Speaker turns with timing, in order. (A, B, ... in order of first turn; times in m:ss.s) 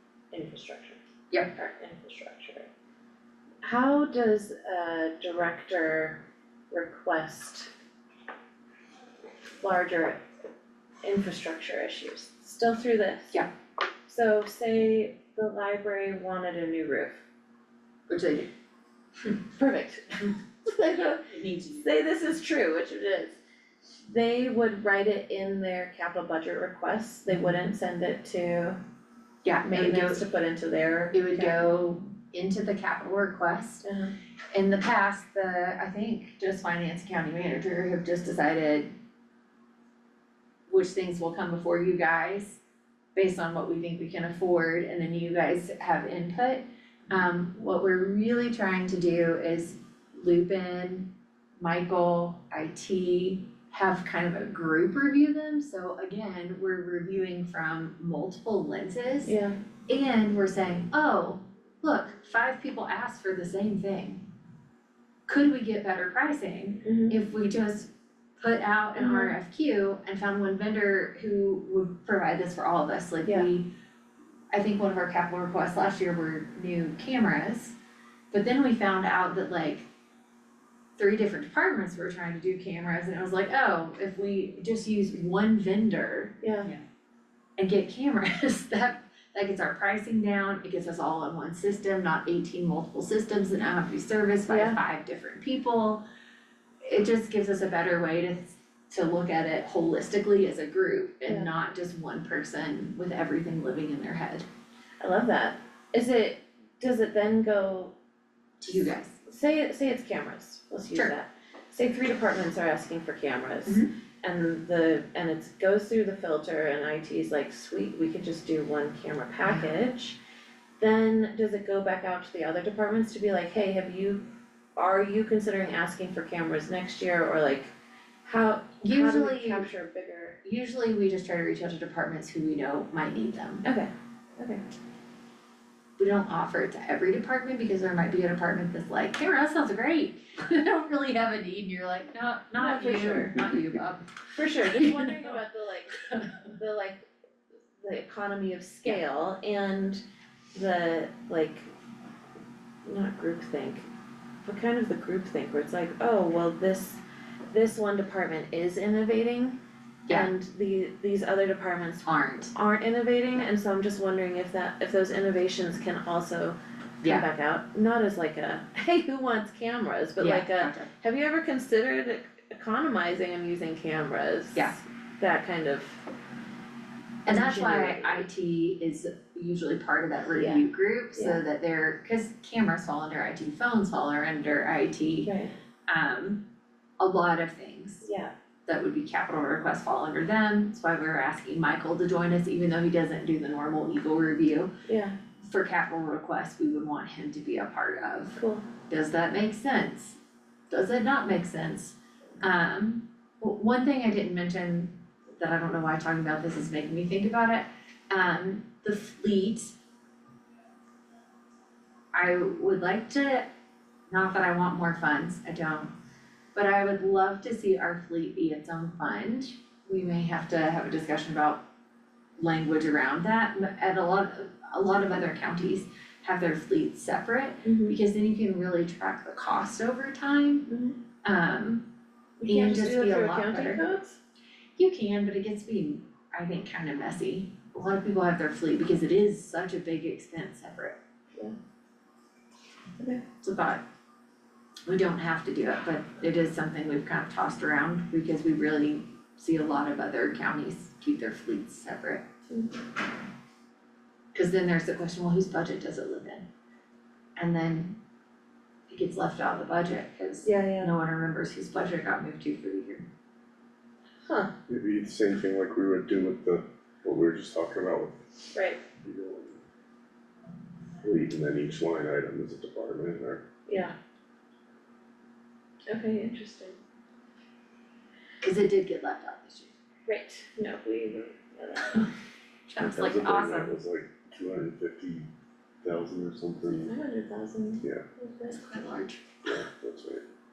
0:00.3-0:01.0 A
0:01.5-0:02.7 A
0:03.6-0:06.2 A
0:06.7-0:07.7 A
0:09.6-0:10.2 A
0:11.0-0:13.4 A
0:14.1-0:17.2 A
0:18.1-0:18.5 B
0:19.5-0:23.4 A
0:21.1-0:21.9 B
0:24.0-0:28.8 A
0:29.4-0:30.2 B
0:29.6-0:31.6 A
0:31.1-0:33.8 B
0:33.8-0:34.1 A
0:34.5-0:38.9 B
0:40.7-0:42.6 B
0:43.2-0:59.3 B
0:59.2-0:59.6 A
0:59.9-1:04.2 B
1:05.3-1:13.7 B
1:06.8-1:07.2 A
1:09.0-1:09.3 A
1:13.2-1:13.5 A
1:14.5-1:17.8 B
1:18.3-1:19.9 B
1:21.0-1:26.8 B
1:26.4-1:26.7 A
1:27.6-1:36.0 B
1:34.5-1:34.8 A
1:36.8-1:44.4 B
1:41.2-1:41.5 A
1:45.0-1:47.9 A
1:48.6-1:49.2 B
1:49.2-2:00.2 A
1:59.4-1:59.7 B
2:00.8-2:04.2 A
2:04.8-2:07.7 A
2:08.2-2:10.4 A
2:08.8-2:09.7 B
2:10.4-2:13.6 B
2:13.6-2:14.6 A
2:16.0-2:24.0 B
2:22.6-2:23.4 A
2:24.4-2:27.0 A
2:24.6-2:25.4 B
2:27.8-2:30.0 A
2:30.5-2:31.7 A
2:32.8-2:33.9 A
2:34.4-2:56.0 A
2:42.0-2:42.5 B
2:50.2-2:50.9 B
2:54.5-2:54.8 B
2:57.2-3:05.3 B
2:57.2-2:58.2 A
3:00.3-3:01.4 A
3:05.2-3:05.5 A
3:05.9-3:06.4 B
3:07.0-3:08.0 B
3:08.0-3:08.3 A
3:08.7-3:14.7 B
3:14.8-3:15.2 A
3:15.4-3:18.4 B
3:18.3-3:18.6 A
3:18.9-3:20.2 B
3:20.7-3:29.8 B
3:32.1-3:33.4 B
3:34.1-3:35.9 B
3:36.5-3:41.6 B
3:42.4-3:50.7 B
3:47.6-3:48.0 A
3:50.7-3:51.0 A
3:51.2-3:51.8 B
3:52.4-3:54.2 A
3:52.5-3:53.8 B
3:54.8-4:01.0 B
4:03.0-4:03.2 A
4:03.4-4:03.8 B
4:04.9-4:12.2 B
4:14.3-4:16.4 B
4:17.4-4:18.0 B
4:18.9-4:23.0 B
4:20.4-4:20.9 A
4:24.2-4:24.5 A
4:24.7-4:28.3 C
4:28.5-4:28.8 A
4:29.0-4:29.6 C
4:31.0-4:33.4 C
4:33.7-4:33.9 A
4:35.9-4:36.8 A
4:38.4-4:39.7 B
4:40.1-4:42.1 A
4:42.7-4:43.7 B
4:42.8-4:45.3 C
4:45.8-4:46.9 C
4:46.8-4:48.6 A
4:48.5-4:49.2 B
4:49.4-4:50.2 C